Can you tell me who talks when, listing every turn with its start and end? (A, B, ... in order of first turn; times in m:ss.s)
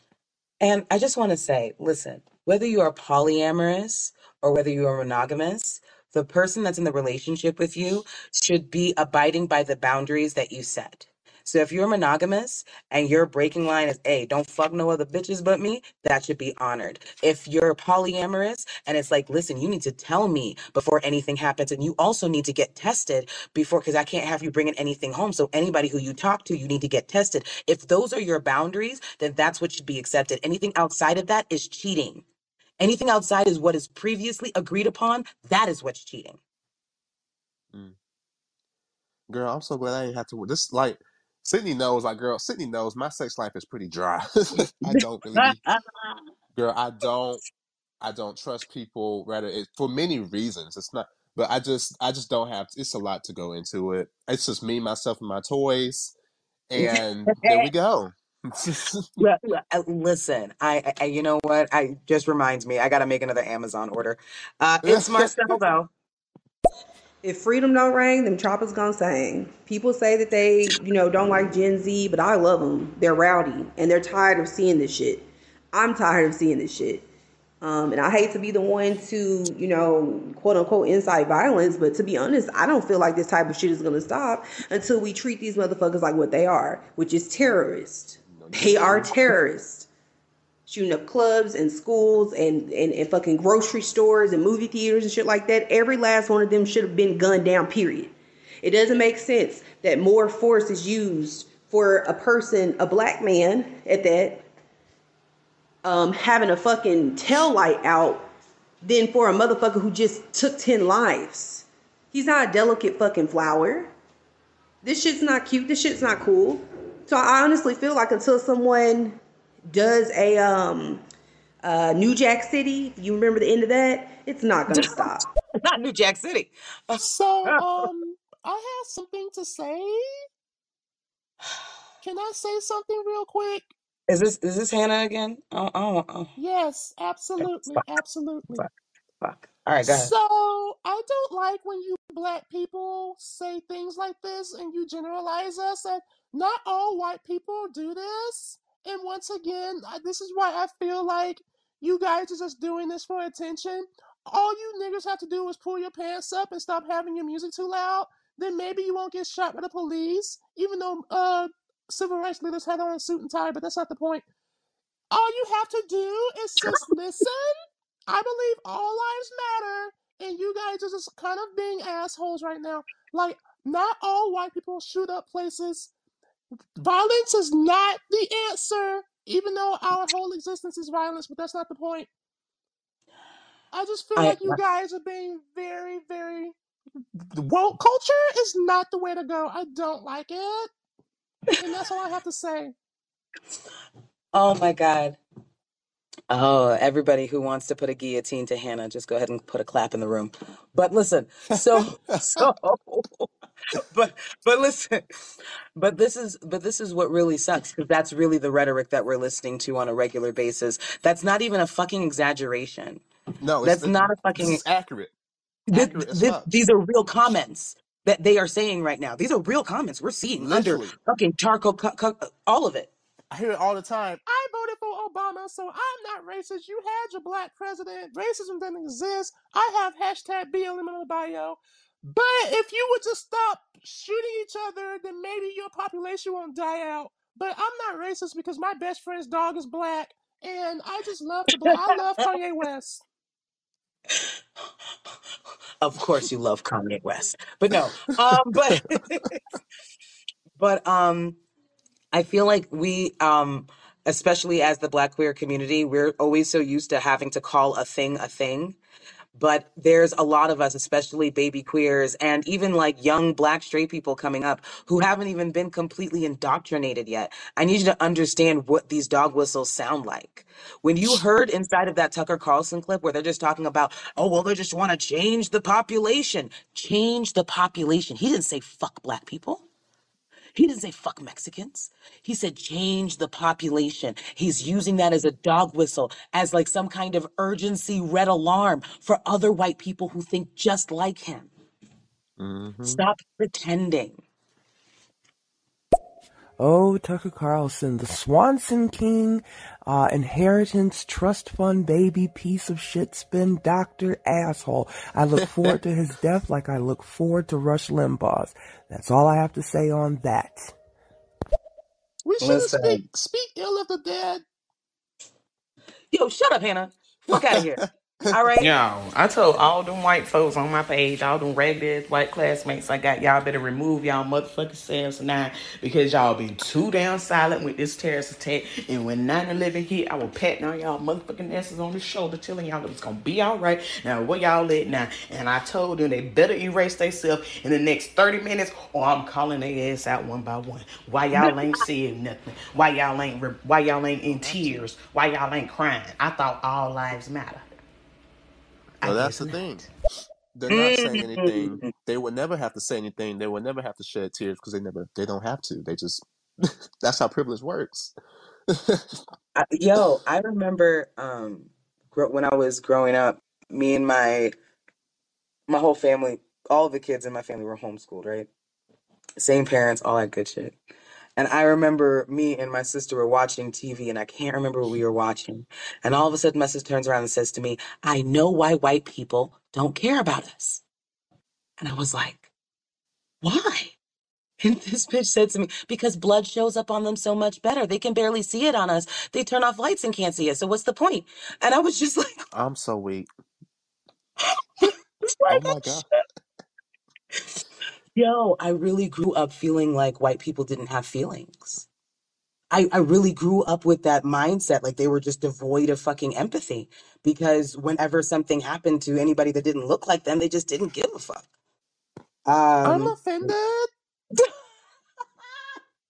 0:00.6-0:32.2 A
0:32.8-0:36.4 A
0:39.3-0:45.6 B
0:44.9-0:46.2 A
0:46.6-0:47.4 B
0:48.0-0:56.1 B
0:56.7-0:59.1 B
0:56.8-0:57.7 A
0:59.2-1:05.9 A
1:04.8-1:05.6 B
1:07.2-1:17.1 C
1:17.6-1:29.9 C
1:28.3-1:29.2 B
1:30.7-1:44.4 C
1:45.8-1:48.3 C
1:48.8-1:53.9 C
1:54.8-2:01.0 C
2:01.6-2:05.2 C
2:04.7-2:05.0 A
2:05.6-2:07.9 A
2:07.0-2:10.0 D
2:12.0-2:13.7 D
2:14.1-2:16.3 A
2:16.4-2:18.6 D
2:17.4-2:17.9 A
2:19.2-2:20.1 A
2:19.8-2:44.2 D
2:45.1-2:47.5 D
2:48.1-2:55.9 D
2:56.8-3:02.1 D
3:03.7-3:06.5 D
3:04.2-3:04.6 A
3:07.2-3:10.7 D
3:11.6-3:12.7 D
3:14.3-3:15.2 A
3:16.3-3:25.1 A
3:25.8-3:33.0 A
3:33.4-3:35.1 B
3:33.6-3:34.6 A
3:35.7-3:42.9 A
3:35.7-3:36.5 B
3:40.4-3:40.9 B
3:43.3-3:44.2 B
3:44.3-4:03.0 D
4:01.6-4:02.3 A
4:05.8-4:09.4 A
4:10.6-4:11.4 A
4:12.1-4:18.8 A
4:19.4-4:39.6 A
4:40.6-4:51.5 A
4:52.4-4:53.0 B
4:52.9-4:54.2 A
4:56.6-5:10.7 E
5:12.2-5:14.4 D
5:12.4-5:13.0 A
5:16.1-5:18.7 A
5:18.6-5:47.7 F
5:44.4-5:44.8 B
5:49.0-5:49.8 F
5:49.0-5:49.9 B
5:50.6-5:58.1 B
5:50.7-5:51.9 A
5:58.7-5:59.1 B
5:59.6-6:04.5 A
6:05.7-6:08.5 A
6:09.4-6:10.8 A
6:11.4-6:20.8 A
6:21.8-6:22.5 A
6:23.4-6:23.9 A
6:24.6-6:32.4 A
6:32.5-6:33.3 B
6:34.8-6:36.0 A
6:35.5-6:36.1 B
6:38.2-6:41.9 A
6:42.7-6:51.5 A
6:52.5-6:53.5 A
6:52.8-6:53.9 D